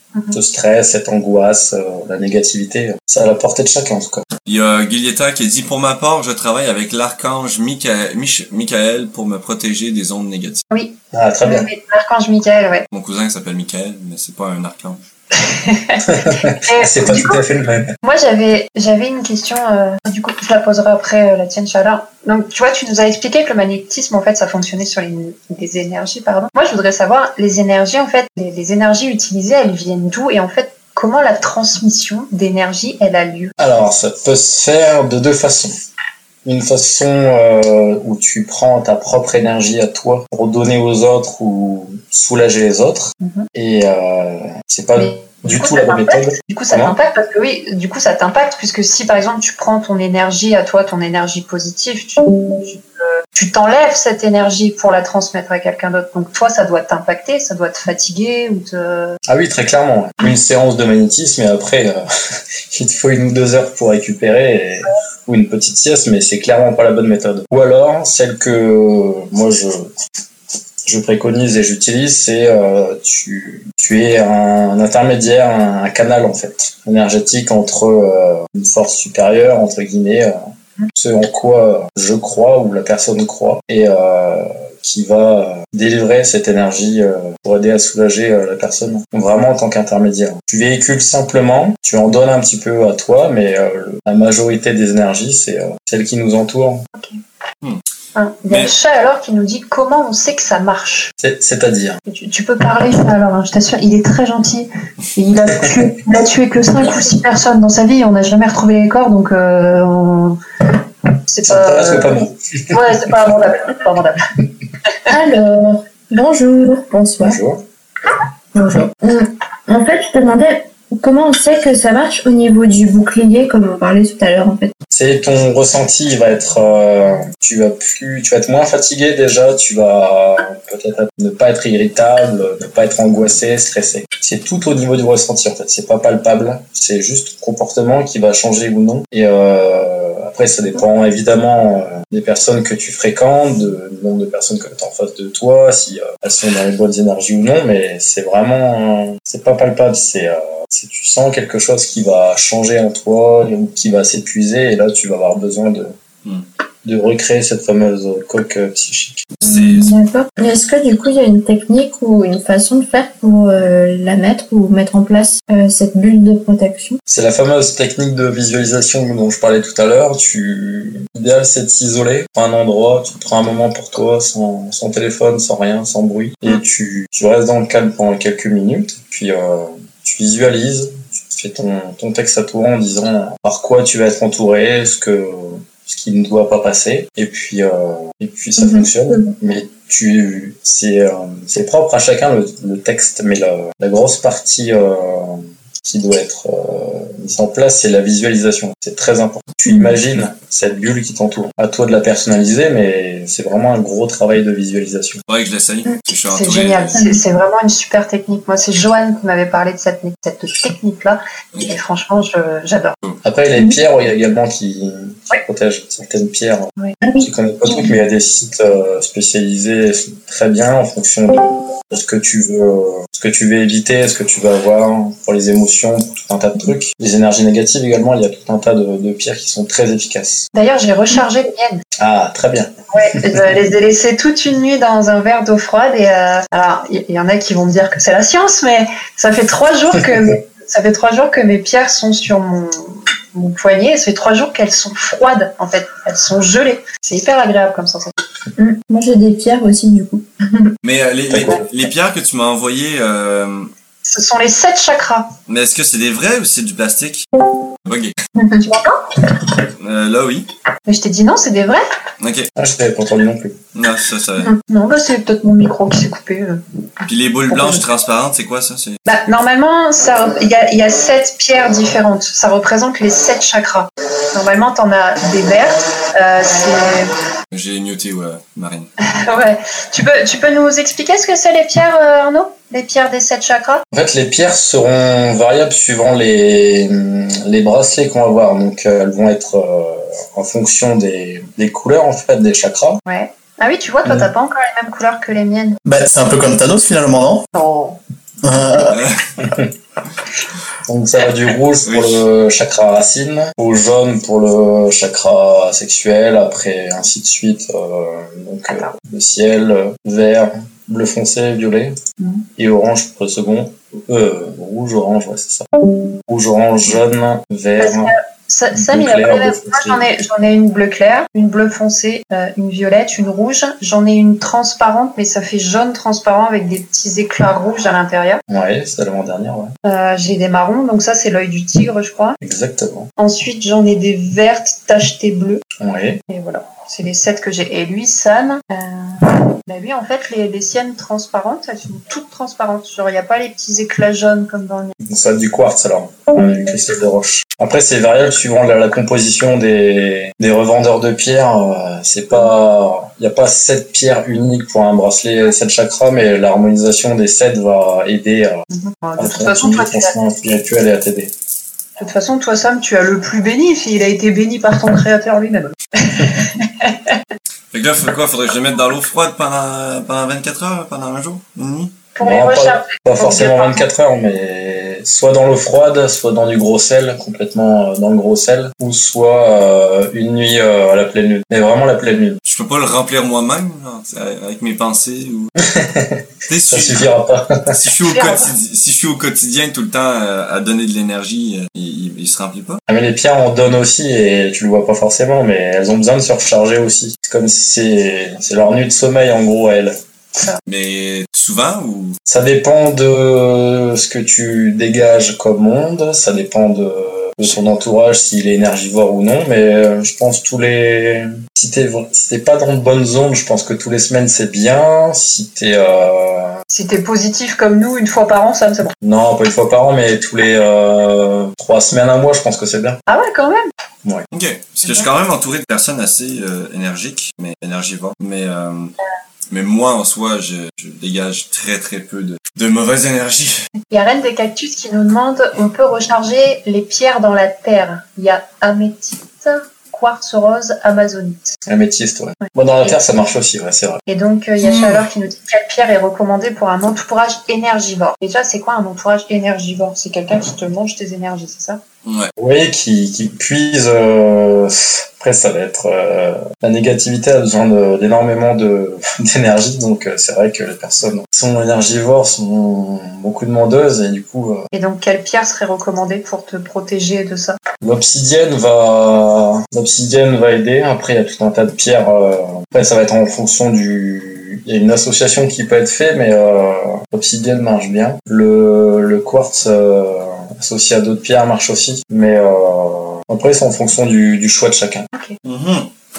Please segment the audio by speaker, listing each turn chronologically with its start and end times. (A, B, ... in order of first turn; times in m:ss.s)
0:00.3-0:04.2 A
0:04.4-0:10.6 B
0:10.7-0:12.9 C
0:11.1-0:11.7 A
0:12.9-0:15.0 B
0:15.4-0:17.4 C
0:16.1-0:17.9 A
0:18.0-0:33.5 C
0:33.6-0:35.7 A
0:36.4-0:46.9 A
0:43.2-0:43.5 C
0:45.0-0:59.2 C
0:59.3-1:02.0 A
1:02.7-1:09.9 A
1:10.8-1:20.4 A
1:20.9-1:36.8 A
1:38.2-1:41.1 C
1:41.2-1:42.0 A
1:42.1-1:50.7 C
1:51.3-1:54.2 C
1:51.5-1:53.1 A
1:55.1-1:57.4 D
1:57.2-1:57.6 A
1:58.1-2:04.7 D
2:04.9-2:35.9 A
2:36.8-2:39.3 A
2:39.4-2:40.0 B
2:39.4-2:47.0 D
2:47.1-3:25.2 A
3:08.6-3:08.8 D
3:25.3-3:27.0 B
3:26.3-3:33.0 C
3:33.2-3:36.7 A
3:37.0-3:37.9 D
3:37.2-3:50.4 A
3:50.5-3:51.8 C
3:52.0-3:52.7 A
3:52.9-4:08.1 C
4:08.6-4:10.7 D
4:10.8-4:13.7 B
4:11.3-4:11.6 A
4:14.0-4:15.3 C
4:15.5-4:17.3 B
4:17.8-4:18.1 B
4:18.4-4:19.3 C
4:19.8-4:20.5 B
4:20.8-4:21.8 C
4:22.2-4:22.5 B
4:22.6-4:23.6 A
4:23.7-4:24.5 B
4:24.4-4:26.6 C
4:27.0-4:29.0 B
4:27.5-4:27.8 C
4:29.1-4:37.2 C
4:37.5-4:38.9 B
4:39.1-4:43.8 C
4:43.9-4:53.0 A
4:53.0-4:55.8 C
4:55.8-4:57.5 E
4:57.5-4:58.0 C
4:58.4-4:59.0 E
4:58.9-4:59.2 B
4:59.4-4:59.7 A
5:00.9-5:12.0 A
5:01.8-5:02.2 B
5:12.6-5:15.7 A
5:16.3-5:18.1 A
5:17.8-5:28.4 C
5:18.7-5:20.0 A
5:28.5-5:29.7 A
5:29.8-5:32.4 C
5:32.4-5:33.1 A
5:33.2-5:35.6 C
5:35.8-5:36.2 A
5:36.3-5:44.9 C
5:45.0-5:58.6 A
5:58.7-6:00.1 C
5:59.2-6:01.3 A
6:02.0-6:07.2 C
6:07.7-6:12.0 B
6:12.2-6:13.8 C
6:12.2-6:22.4 A
6:22.4-6:25.5 B
6:25.6-6:27.6 A
6:26.4-6:27.1 B
6:27.7-6:32.8 B
6:28.1-6:28.5 C
6:32.9-6:39.9 A
6:40.6-6:42.2 B
6:42.3-6:56.6 A
6:56.7-6:58.9 C
6:59.0-7:03.0 A
7:03.1-7:03.7 C
7:04.3-7:08.9 B
7:09.5-7:13.7 B
7:13.9-7:21.6 C
7:21.7-7:24.0 A
7:24.1-7:31.8 C
7:32.0-7:32.3 B
7:32.4-7:44.6 A
7:44.7-7:47.6 C
7:47.8-8:05.1 A
8:05.4-8:05.9 B